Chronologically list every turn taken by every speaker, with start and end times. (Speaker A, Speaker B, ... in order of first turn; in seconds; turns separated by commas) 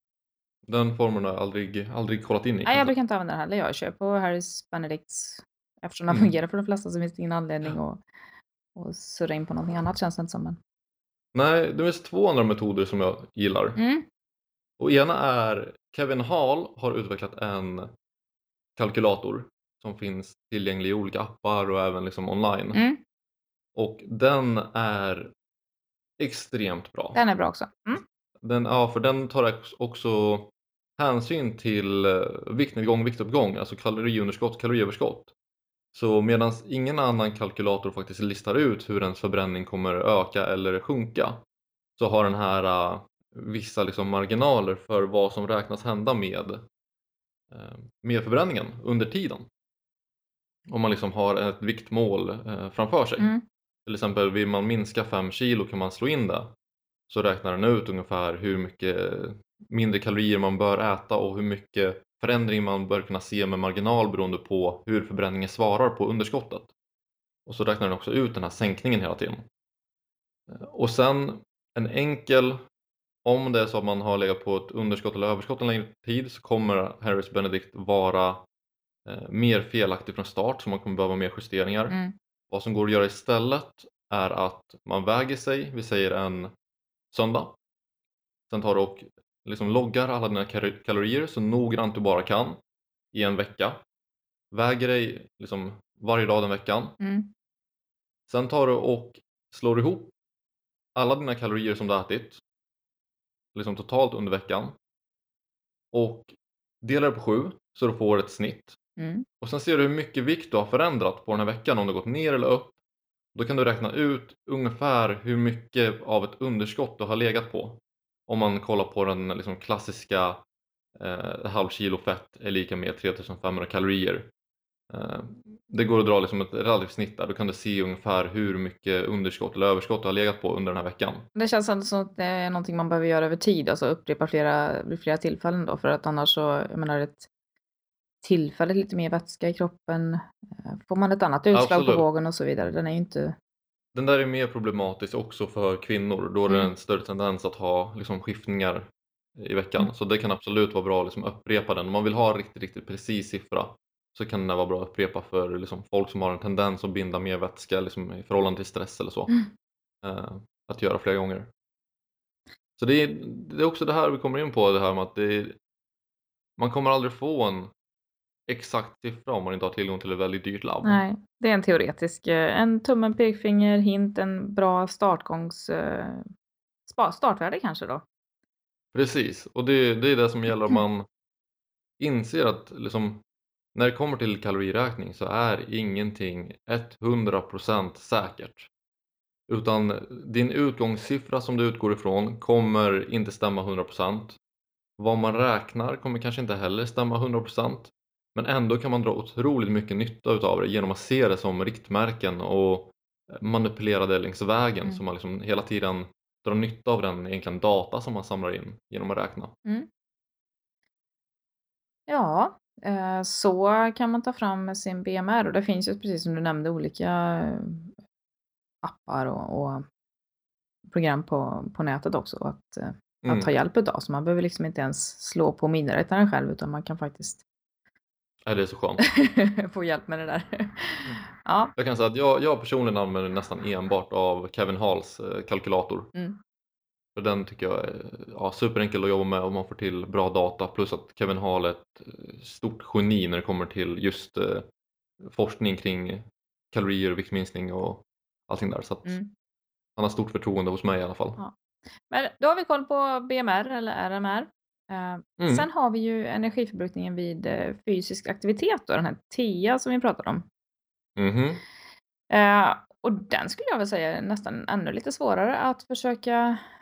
Speaker A: 0.7-2.9, Speaker B: 2.6-8.0, Speaker B: 8.7-10.6, Speaker A: 11.3-13.8, Speaker B: 13.8-14.1, Speaker A: 14.8-17.9, Speaker A: 18.8-22.8, Speaker B: 22.7-23.0, Speaker A: 23.7-25.3, Speaker A: 26.2-27.2, Speaker B: 27.1-28.0, Speaker A: 28.4-35.3, Speaker A: 35.9-41.4, Speaker A: 42.0-46.6, Speaker A: 47.5-49.5, Speaker A: 50.7-53.3, Speaker B: 53.2-53.4, Speaker A: 53.9-56.5, Speaker A: 57.1-66.7, Speaker A: 67.5-69.5, Speaker A: 70.5-72.6, Speaker A: 73.2-78.4, Speaker A: 79.0-82.0, Speaker B: 81.9-82.1, Speaker A: 82.5-86.5, Speaker A: 87.1-87.5, Speaker A: 88.5-92.6, Speaker A: 93.1-93.8, Speaker A: 94.5-97.0, Speaker B: 97.0-97.3, Speaker A: 98.3-100.1, Speaker A: 101.0-102.4, Speaker A: 103.5-104.8, Speaker A: 105.9-108.8, Speaker B: 109.0-109.2, Speaker A: 109.4-112.7, Speaker A: 113.3-120.4, Speaker A: 121.0-124.3, Speaker A: 124.9-131.3, Speaker B: 131.3-137.3, Speaker B: 138.2-143.3, Speaker A: 141.5-142.1, Speaker A: 143.9-159.3, Speaker B: 146.5-146.7, Speaker A: 160.0-161.5, Speaker A: 162.8-165.6, Speaker A: 166.6-167.7, Speaker A: 168.5-171.0, Speaker B: 170.8-176.2, Speaker B: 176.8-178.0, Speaker A: 178.9-181.1, Speaker B: 180.5-180.8, Speaker A: 182.0-183.2, Speaker A: 183.7-188.7, Speaker A: 189.5-194.4, Speaker A: 195.0-209.5, Speaker B: 212.1-217.9, Speaker B: 218.8-219.8, Speaker B: 220.9-227.4, Speaker A: 223.2-223.5, Speaker A: 228.4-229.0, Speaker B: 229.0-231.7, Speaker A: 231.8-236.1, Speaker A: 237.1-244.7, Speaker A: 245.2-249.2, Speaker B: 249.0-249.3, Speaker A: 250.0-251.4, Speaker B: 252.1-260.4, Speaker A: 255.4-255.7, Speaker A: 261.2-261.6, Speaker B: 262.3-266.6